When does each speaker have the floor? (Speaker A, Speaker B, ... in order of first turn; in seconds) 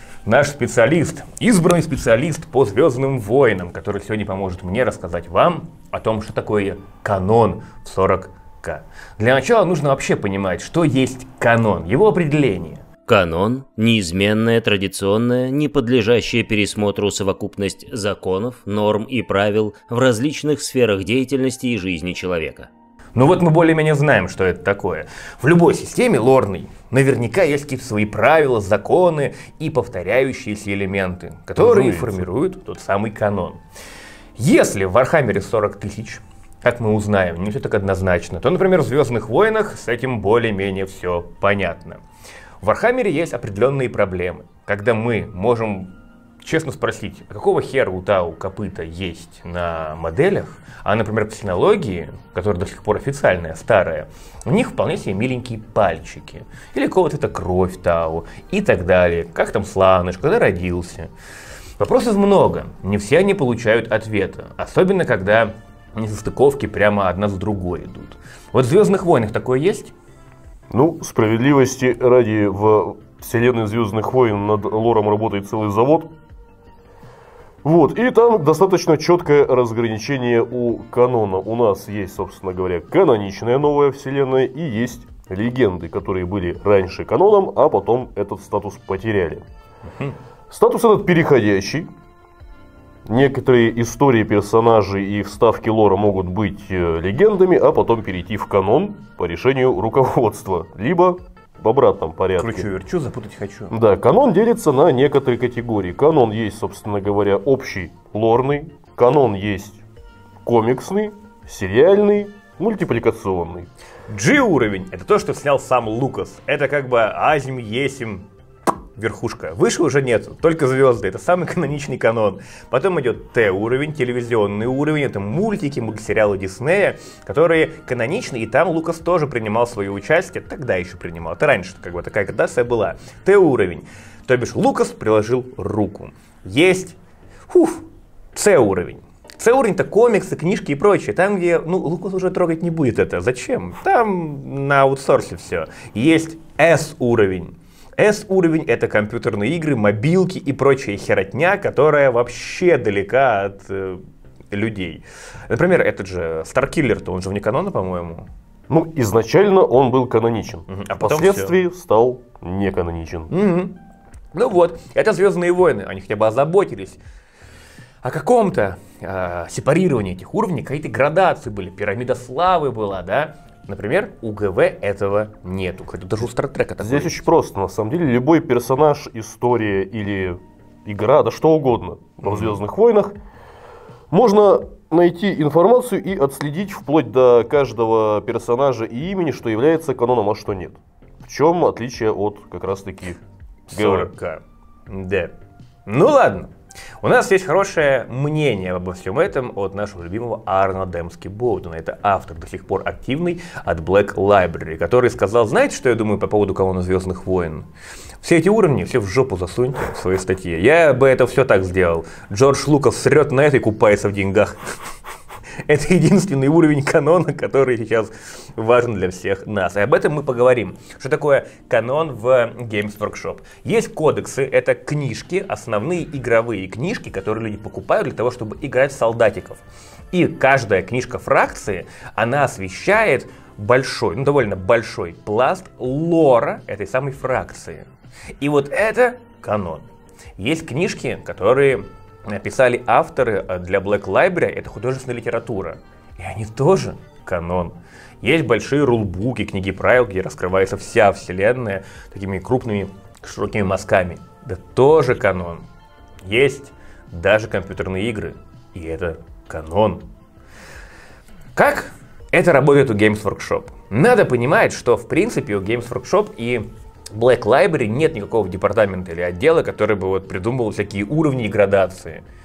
Speaker A: 0.2-12.8, 23.1-33.6, 34.4-42.0, 42.6-61.1, 61.8-69.9, 102.4-103.7, 114.1-118.3, 119.0-136.9, 137.5-158.3, 160.7-161.6, 163.3-163.8, 164.3-167.0, 168.0-177.2, 182.2-182.6, 193.7-195.3, 195.8-207.7, 208.2-214.8, 215.7-237.9, 238.4-239.8, 240.4-255.7, 256.2-260.0, 261.5-272.2
Speaker B: 13.1-22.7
Speaker C: 31.6-32.2, 70.7-76.1, 77.6-89.4, 90.5-91.9, 93.0-102.7, 103.7-109.8, 110.4-113.7, 158.7-163.3, 176.8-183.1, 184.1-193.2, 193.7-194.1